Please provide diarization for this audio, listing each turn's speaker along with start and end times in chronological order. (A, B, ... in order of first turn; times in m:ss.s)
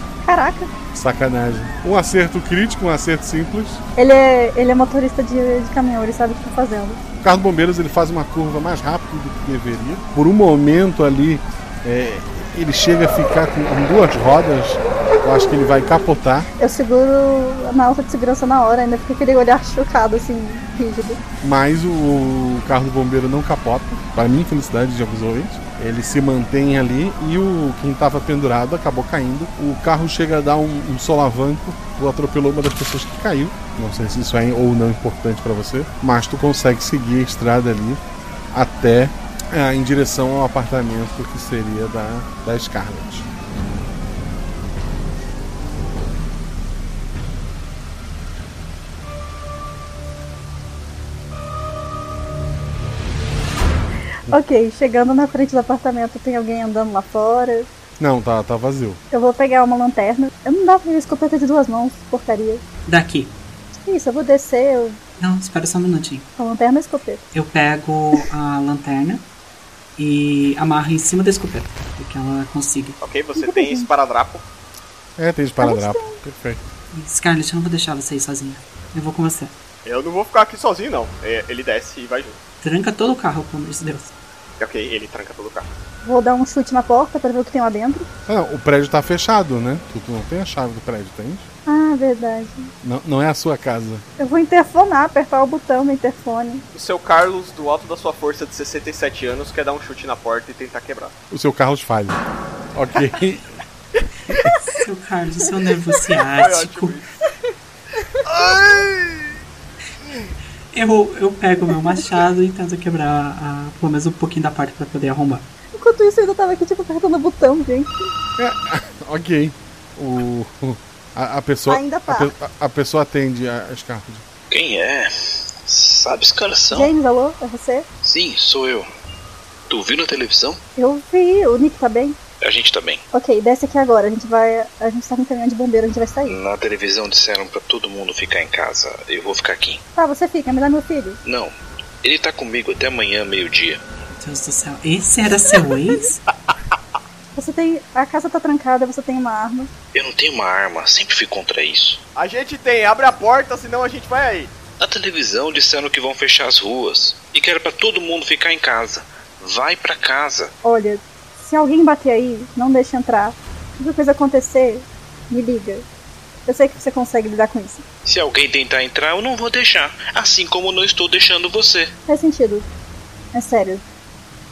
0:00.2-0:00.7 A
0:00.9-0:03.8 B
0:04.0-0:07.0 A
0:07.2-0:16.5 B
0:16.6-0:21.2 A
0:21.4-0:38.0 B
0:38.5-0:43.3 B
0:54.3-0:57.7 A
0:58.0-0:59.0 B
0:59.1-1:02.6 A
1:02.9-1:03.4 C
1:03.8-1:05.0 A
1:05.2-1:06.3 C
1:06.4-1:07.2 A
1:07.3-1:09.2 C
1:10.0-1:13.0 C
1:13.0-1:14.4 D
1:13.4-1:13.9 A
1:15.2-1:16.6 B
1:15.6-1:16.2 A
1:16.9-1:19.5 C
1:19.8-1:22.4 D
1:22.6-1:24.1 C
1:24.6-1:25.7 D
1:26.0-1:28.1 A
1:28.2-1:31.5 B
1:31.6-1:32.7 A
1:32.8-1:34.0 B
1:34.2-1:36.6 A
1:36.7-1:41.1 D
1:41.3-1:42.2 B
1:42.7-1:43.5 B
1:44.7-1:47.0 C
1:46.4-1:47.0 D
1:48.2-1:49.3 D
1:50.7-1:55.5 C
1:55.7-1:58.1 A
1:58.4-2:04.2 B
2:01.7-2:02.3 A
2:04.5-2:06.9 E
2:06.7-2:07.8 A
2:08.0-2:08.9 E
2:09.7-2:10.6 E
2:10.8-2:12.2 A
2:12.4-2:13.0 E
2:13.1-2:16.4 A
2:16.2-2:19.8 E
2:20.0-2:21.2 A
2:21.2-2:23.8 E
2:24.1-2:26.2 C
2:27.3-2:29.7 A
2:29.9-2:32.0 E
2:32.2-2:34.5 D
2:34.8-2:40.5 E
2:40.6-2:45.8 A
2:46.5-2:47.8 A
2:48.0-2:51.9 E
2:52.1-2:52.7 A
2:53.3-2:53.8 A